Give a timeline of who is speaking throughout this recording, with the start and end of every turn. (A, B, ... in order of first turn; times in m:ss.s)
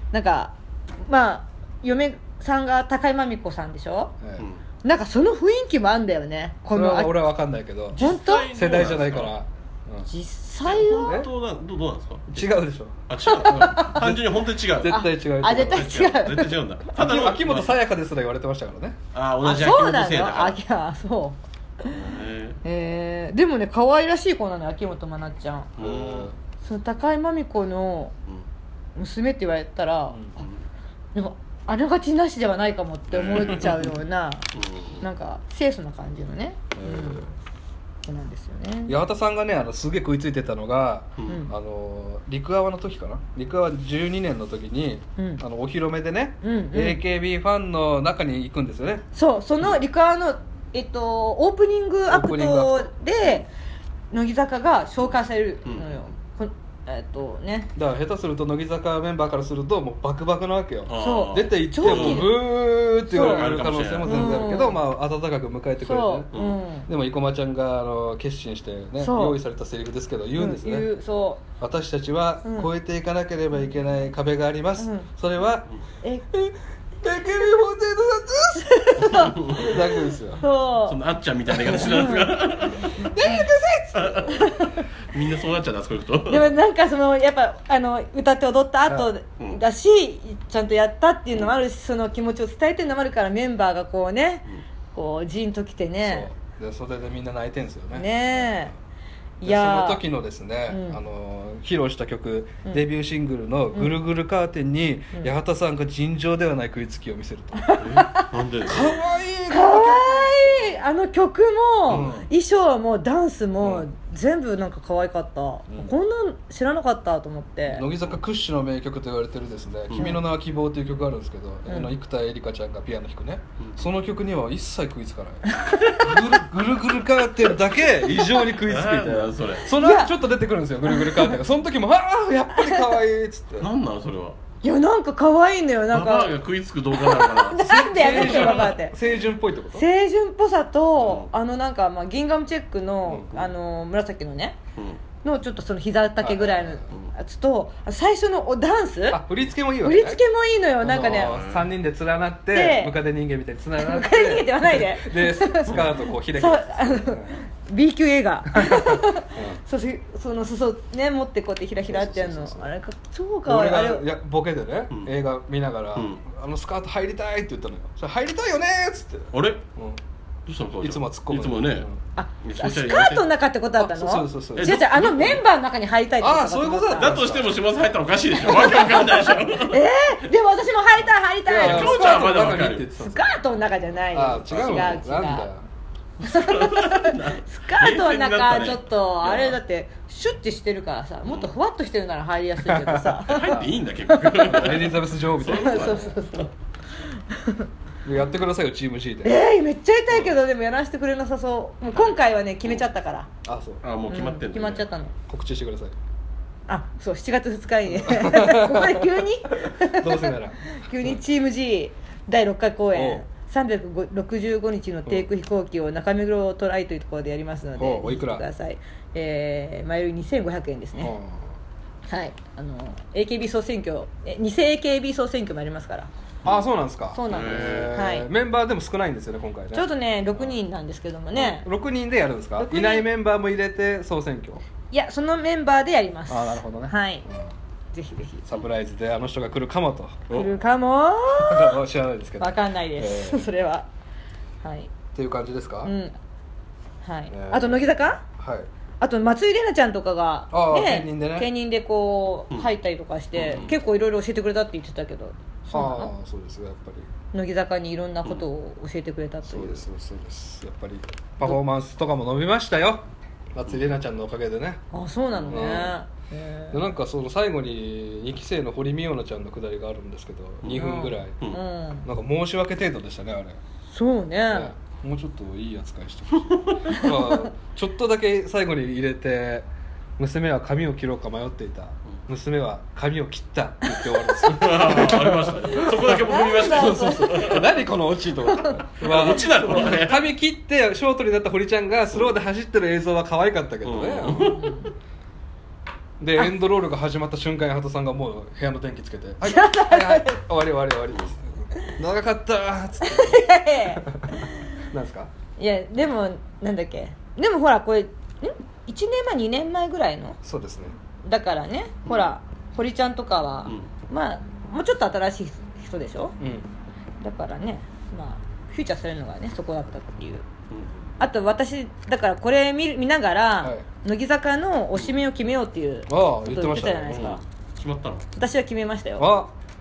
0:00.1-0:04.2 A
0:04.2-0:04.5 B
0:04.4-0:04.6 C
0:04.8-0:07.3 A
0:06.7-0:10.1 B
0:07.9-0:08.5 A
0:08.0-0:09.4 C
0:10.1-0:11.2 A
0:10.6-0:12.5 C
0:12.3-0:16.0 B
0:13.1-0:17.8 C
0:13.2-0:14.0 A
0:14.9-0:16.6 A
0:17.0-0:19.0 B
0:19.1-0:20.6 C
0:19.4-0:22.0 A
0:21.9-0:22.6 C
0:22.6-0:25.7 A
0:25.8-0:26.3 C
0:25.8-0:26.4 B
0:26.6-0:28.1 A
0:29.0-0:30.2 A
0:31.2-0:34.5 A
0:33.1-0:33.9 C
0:34.5-0:35.0 C
0:35.0-0:37.2 A
0:36.8-0:37.3 B
0:38.0-0:39.0 A
0:38.9-0:49.0 B
0:41.3-0:41.5 A
0:45.2-0:45.4 A
0:46.4-0:47.0 A
0:49.2-0:53.5 A
0:52.1-0:52.9 B
0:54.1-0:57.7 A
0:55.7-0:56.0 C
0:57.8-1:06.3 B
1:00.9-1:02.3 C
1:01.0-1:02.5 A
1:03.1-1:04.5 C
1:03.1-1:04.8 A
1:05.8-1:06.9 A
1:06.3-1:06.6 C
1:06.9-1:10.9 B
1:09.0-1:09.4 A
1:10.4-1:11.4 A
1:11.6-1:15.7 B
1:12.4-1:12.7 A
1:14.8-1:15.1 A
1:16.3-1:20.4 B
1:18.5-1:21.0 A
1:19.1-1:19.7 C
1:20.8-1:23.4 C
1:21.6-1:24.9 A
1:23.1-1:24.2 B
1:23.9-1:26.5 C
1:26.3-1:36.3 A
1:36.0-1:38.7 B
1:37.9-1:38.7 A
1:39.4-1:40.0 A
1:39.4-1:47.8 B
1:40.7-1:41.0 A
1:47.6-1:48.3 A
1:47.8-1:49.0 C
1:48.6-1:50.8 B
1:49.5-1:57.9 A
1:51.9-1:52.2 C
1:51.9-1:52.3 B
1:57.7-2:13.7 B
1:59.9-2:00.2 C
2:00.0-2:00.2 A
2:01.7-2:01.9 A
2:05.5-2:06.2 A
2:08.0-2:08.4 A
2:08.5-2:09.7 C
2:09.7-2:10.2 A
2:10.9-2:11.4 A
2:12.6-2:13.0 A
2:13.6-2:14.4 C
2:14.6-2:16.3 A
2:15.9-2:18.7 C
2:16.9-2:19.0 A
2:17.6-2:19.8 B
2:19.7-2:24.6 A
2:21.0-2:21.3 C
2:25.2-2:29.2 A
2:26.2-2:26.9 B
2:29.1-2:30.2 B
2:29.8-2:31.4 A
2:30.8-2:37.4 B
2:31.0-2:31.7 C
2:32.5-2:33.0 A
2:33.8-2:35.8 A
2:36.4-2:44.0 A
2:38.5-2:39.6 B
2:41.8-2:42.7 B
2:43.5-2:50.0 B
2:46.0-2:46.2 C
2:49.3-2:49.6 C
2:50.5-2:51.9 C
2:50.8-2:52.0 B
2:52.2-2:57.3 A
2:52.4-2:53.3 C
2:53.8-2:55.3 B
2:54.6-2:55.4 C
2:56.2-2:57.5 B
2:57.0-2:59.8 C
2:58.4-2:59.4 B
2:58.4-2:58.9 A
2:59.6-3:02.4 A
3:01.5-3:03.3 B
3:01.6-3:02.9 C
3:03.0-3:05.5 A
3:04.1-3:05.7 B
3:04.5-3:05.0 C
3:06.2-3:14.9 A
3:06.2-3:09.6 C
3:11.3-3:11.5 C
3:12.6-3:13.7 B
3:13.3-3:16.4 C
3:14.4-3:16.2 B
3:15.4-3:16.5 A
3:17.1-3:17.7 A
3:18.0-3:19.4 B
3:19.2-3:23.3 A
3:23.4-3:23.8 B
3:23.8-3:24.9 C
3:24.1-3:25.1 A
3:25.3-3:26.0 B
3:26.7-3:41.1 A
3:27.9-3:31.2 B
3:32.9-3:33.2 B
3:37.8-3:38.4 B
3:41.0-3:41.6 B
3:42.1-3:46.1 A
3:46.4-3:50.6 B
3:47.1-3:48.3 A
3:47.3-3:48.0 C
3:49.7-3:51.7 A
3:51.3-3:54.6 B
3:52.6-3:53.1 A
3:54.9-3:57.3 A
3:56.3-3:57.5 B
3:57.9-3:58.4 A
3:58.4-4:00.3 B
4:00.3-4:01.8 A
4:01.4-4:03.5 B
4:02.4-4:03.9 A
4:04.6-4:04.9 A
4:05.1-4:05.9 B
4:05.8-4:06.2 A
4:07.0-4:08.2 A
4:07.3-4:08.7 B
4:09.0-4:16.1 A
4:10.5-4:11.5 B
4:13.4-4:13.7 C
4:15.7-4:17.1 B
4:17.3-4:19.8 A
4:19.4-4:24.8 B
4:24.9-4:26.8 A
4:25.5-4:26.0 B
4:26.7-4:31.4 B
4:30.6-4:31.6 C
4:30.7-4:32.1 A
4:32.0-4:33.6 B
4:33.9-4:34.7 A
4:34.5-4:39.7 B
4:36.5-4:36.8 C
4:36.9-4:37.5 A
4:40.2-4:54.6 B
4:44.0-4:44.5 A
4:44.5-4:47.8 C
4:45.7-4:47.5 A
4:48.5-4:48.8 A
4:49.0-4:50.3 C
4:49.6-4:49.8 A
4:53.8-4:54.8 C
4:54.3-4:54.9 A
4:56.2-5:05.3 B
4:59.4-5:00.4 A
5:03.0-5:04.6 A
5:05.6-5:10.4 A
5:10.4-5:11.0 B
5:11.3-5:16.4 A
5:16.4-5:16.7 B
5:17.2-5:20.4 A
5:21.2-5:27.4 A
5:26.1-5:27.4 B
5:27.1-5:28.3 C
5:28.4-5:29.4 A
5:29.2-5:29.5 B